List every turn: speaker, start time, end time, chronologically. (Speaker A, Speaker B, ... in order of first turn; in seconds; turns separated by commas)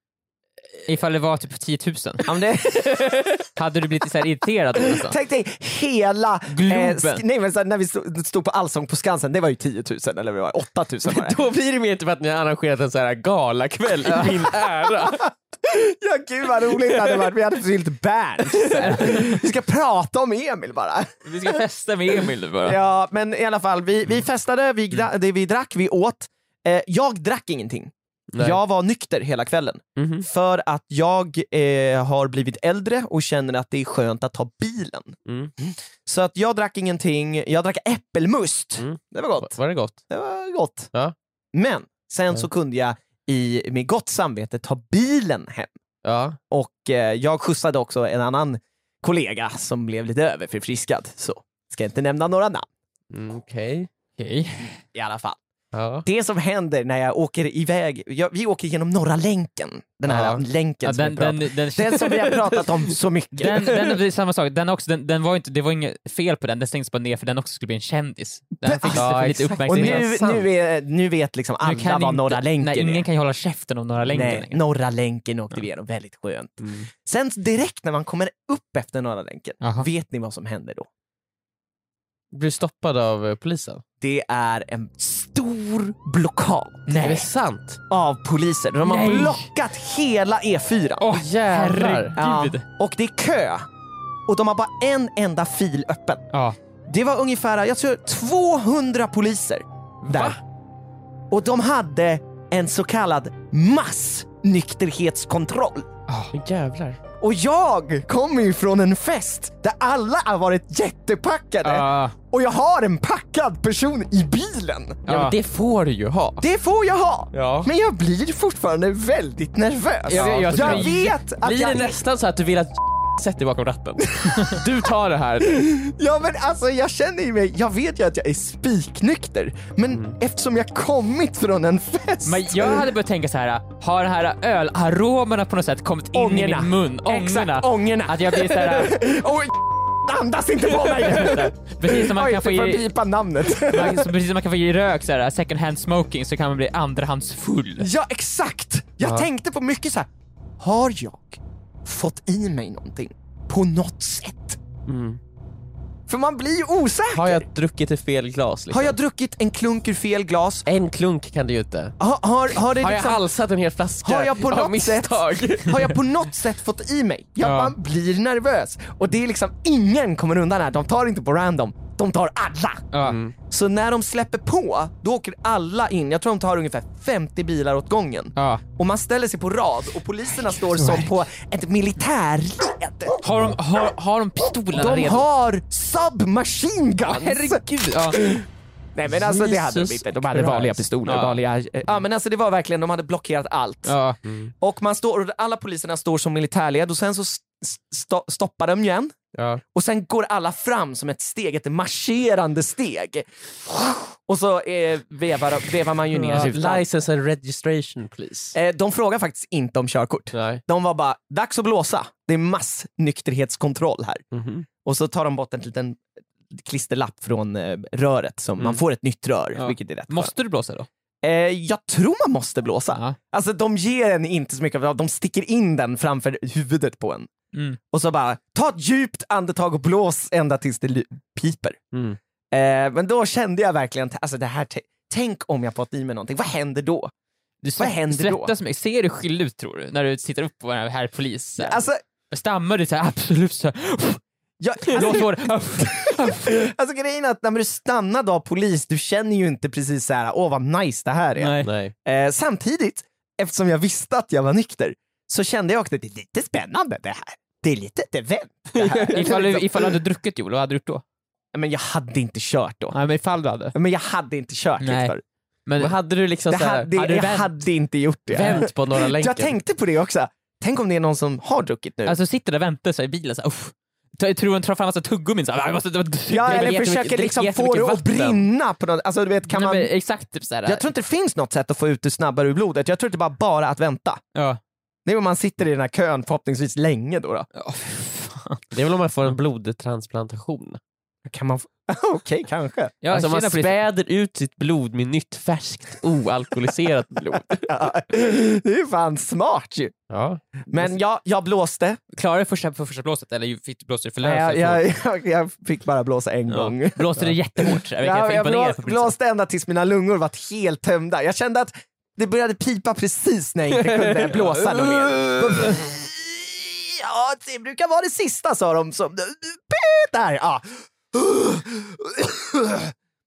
Speaker A: 0.9-2.2, Speaker B: 2.2-3.3, Speaker A: 3.5-5.2, Speaker B: 4.8-11.4, Speaker A: 6.5-7.2, Speaker C: 11.1-15.2, Speaker B: 14.0-21.6, Speaker C: 16.8-17.2, Speaker A: 18.7-19.3, Speaker A: 21.2-22.8, Speaker B: 22.6-39.5, Speaker C: 28.3-28.6, Speaker C: 30.0-30.3, Speaker C: 35.2-35.5, Speaker C: 38.8-40.0, Speaker B: 40.1-40.9, Speaker B: 41.5-45.7, Speaker C: 46.0-46.4, Speaker B: 46.5-52.6, Speaker C: 53.1-53.9, Speaker A: 54.2-54.8, Speaker B: 54.9-55.4, Speaker C: 55.7-56.0, Speaker B: 56.0-63.8, Speaker C: 60.1-60.4, Speaker A: 60.8-62.4, Speaker A: 63.4-70.4, Speaker B: 68.6-73.0, Speaker C: 68.9-70.4, Speaker A: 71.6-74.6, Speaker B: 74.1-80.9, Speaker C: 76.6-76.9, Speaker A: 79.6-79.9, Speaker C: 82.3-83.8, Speaker B: 84.0-87.2, Speaker A: 86.9-87.2, Speaker C: 87.0-87.8, Speaker B: 87.9-91.0, Speaker A: 88.8-89.5, Speaker A: 91.0-92.6, Speaker C: 91.1-92.1, Speaker B: 92.1-93.7, Speaker B: 94.3-96.2, Speaker B: 96.9-100.3, Speaker B: 101.3-105.9, Speaker A: 106.1-106.3, Speaker C: 106.3-107.0, Speaker B: 107.2-115.0, Speaker A: 111.6-112.1, Speaker A: 115.1-115.3, Speaker C: 115.1-116.4, Speaker B: 116.4-122.0, Speaker C: 117.3-117.7, Speaker A: 120.1-121.1, Speaker C: 120.1-125.7, Speaker B: 125.5-132.9, Speaker A: 132.2-139.0, Speaker B: 136.1-144.1, Speaker A: 140.8-142.9, Speaker A: 143.6-147.9, Speaker B: 147.8-150.1, Speaker C: 149.0-149.3, Speaker B: 150.6-154.6, Speaker C: 154.9-155.2, Speaker B: 156.1-157.4, Speaker C: 157.1-158.9, Speaker B: 158.7-160.7, Speaker C: 160.7-161.9, Speaker B: 162.0-163.2, Speaker C: 162.8-165.9, Speaker B: 164.0-172.8, Speaker A: 167.4-167.7, Speaker A: 172.9-173.2, Speaker C: 173.0-173.3, Speaker B: 173.5-183.2, Speaker A: 178.3-178.6, Speaker A: 180.7-181.1, Speaker A: 183.2-185.2, Speaker B: 184.7-193.9, Speaker A: 187.0-188.2, Speaker C: 189.1-190.8, Speaker A: 191.0-191.3, Speaker A: 193.8-194.2, Speaker C: 194.2-194.5, Speaker B: 194.6-199.2, Speaker C: 199.3-199.6, Speaker B: 199.7-206.8, Speaker C: 206.2-208.5, Speaker B: 208.5-214.2, Speaker C: 210.3-210.6, Speaker C: 214.3-214.7, Speaker B: 214.8-216.0, Speaker B: 216.5-220.3, Speaker A: 219.6-220.9, Speaker B: 221.2-227.3, Speaker A: 227.5-227.8, Speaker B: 227.9-231.8, Speaker C: 231.9-232.2, Speaker B: 232.5-237.1, Speaker A: 237.6-244.2, Speaker B: 237.8-238.5, Speaker B: 241.6-242.0, Speaker B: 244.6-259.7, Speaker A: 244.8-246.5, Speaker A: 251.4-251.7, Speaker C: 251.6-251.9, Speaker C: 258.7-259.3, Speaker A: 259.1-261.0, Speaker B: 261.5-262.9, Speaker A: 262.9-263.7, Speaker B: 263.7-265.2, Speaker A: 264.8-265.1, Speaker A: 265.6-265.9, Speaker C: 265.8-266.9, Speaker B: 266.5-272.2, Speaker A: 266.9-267.5, Speaker C: 268.3-269.6, Speaker A: 272.1-278.2, Speaker B: 276.3-279.9, Speaker C: 276.5-278.4, Speaker A: 279.5-280.9, Speaker B: 280.6-284.2, Speaker A: 284.3-284.6, Speaker B: 285.0-287.5, Speaker A: 287.5-288.6, Speaker C: 288.7-290.8, Speaker B: 291.2-292.9, Speaker A: 293.0-293.8, Speaker C: 293.1-297.7, Speaker B: 297.6-299.9, Speaker C: 300.1-300.6, Speaker B: 300.7-302.0, Speaker A: 302.1-304.9, Speaker B: 304.2-322.9, Speaker A: 306.5-309.1, Speaker C: 313.7-315.6